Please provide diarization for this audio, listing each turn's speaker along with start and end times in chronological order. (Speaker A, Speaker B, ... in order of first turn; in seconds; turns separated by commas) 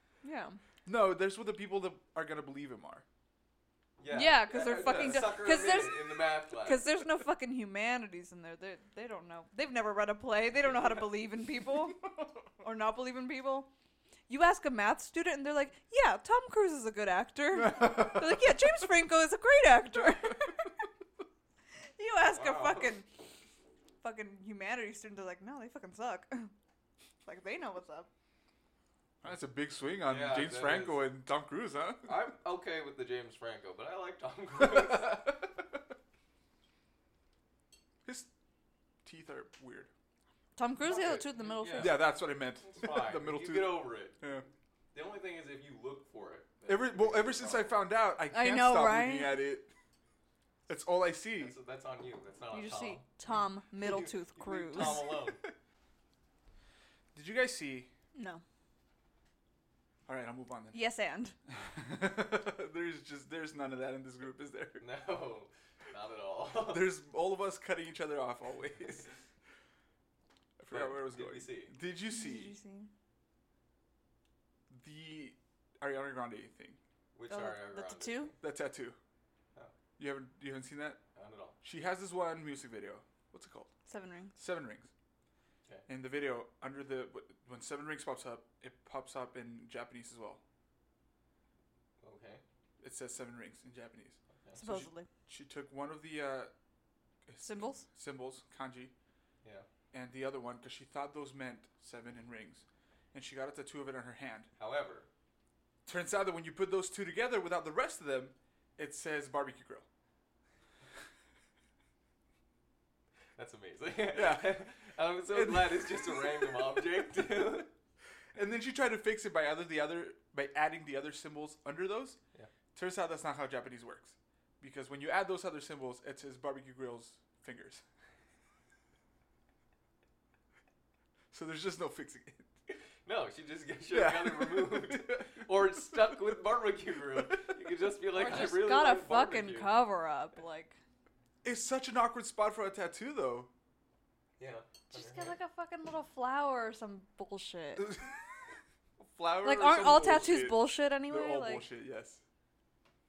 Speaker A: 0.2-0.6, Speaker B: 0.9-3.0, Speaker C: 4.0-6.9, Speaker A: 4.1-12.1, Speaker C: 10.6-11.0, Speaker B: 12.0-12.3, Speaker A: 12.6-13.7, Speaker A: 14.3-20.7, Speaker B: 17.5-18.6, Speaker A: 22.0-23.1, Speaker C: 22.3-23.0, Speaker A: 24.0-26.5, Speaker A: 27.2-28.1, Speaker B: 29.2-32.2, Speaker C: 30.0-31.1, Speaker C: 32.0-35.4, Speaker B: 34.6-35.5, Speaker B: 38.0-38.3, Speaker B: 39.0-39.9, Speaker A: 40.6-42.0, Speaker C: 40.8-47.8, Speaker B: 41.8-44.5, Speaker B: 46.7-49.7, Speaker A: 48.3-49.4, Speaker B: 50.7-51.5, Speaker C: 51.4-53.1, Speaker A: 52.5-55.1, Speaker C: 53.8-55.4, Speaker B: 54.8-55.5, Speaker B: 57.1-57.9, Speaker A: 58.1-58.4, Speaker B: 60.1-60.8, Speaker A: 60.7-61.3, Speaker B: 61.5-64.8, Speaker C: 64.8-66.9, Speaker B: 66.6-69.0, Speaker B: 70.6-72.5, Speaker C: 70.7-71.7, Speaker A: 72.1-72.9, Speaker B: 74.7-76.8, Speaker C: 77.1-78.4, Speaker A: 77.3-78.3, Speaker B: 78.4-79.0, Speaker B: 80.0-81.0, Speaker C: 81.2-81.6, Speaker B: 81.6-83.7, Speaker A: 83.9-84.3, Speaker B: 84.3-84.9, Speaker B: 85.9-90.4, Speaker C: 92.0-92.4, Speaker B: 92.8-96.5, Speaker A: 94.6-95.1, Speaker B: 97.3-98.9, Speaker A: 97.4-97.8, Speaker B: 99.9-104.5, Speaker C: 104.6-105.1, Speaker B: 105.8-109.8, Speaker C: 113.3-117.7, Speaker B: 114.1-114.6, Speaker B: 115.3-116.8, Speaker B: 118.3-122.2, Speaker B: 122.7-127.8, Speaker B: 131.3-132.5, Speaker C: 133.0-139.8, Speaker B: 133.9-136.3, Speaker B: 137.2-137.5, Speaker A: 138.1-140.8, Speaker B: 141.4-143.5, Speaker C: 144.4-145.3, Speaker A: 144.9-148.0, Speaker B: 147.8-148.4, Speaker B: 149.0-152.2, Speaker A: 149.4-151.7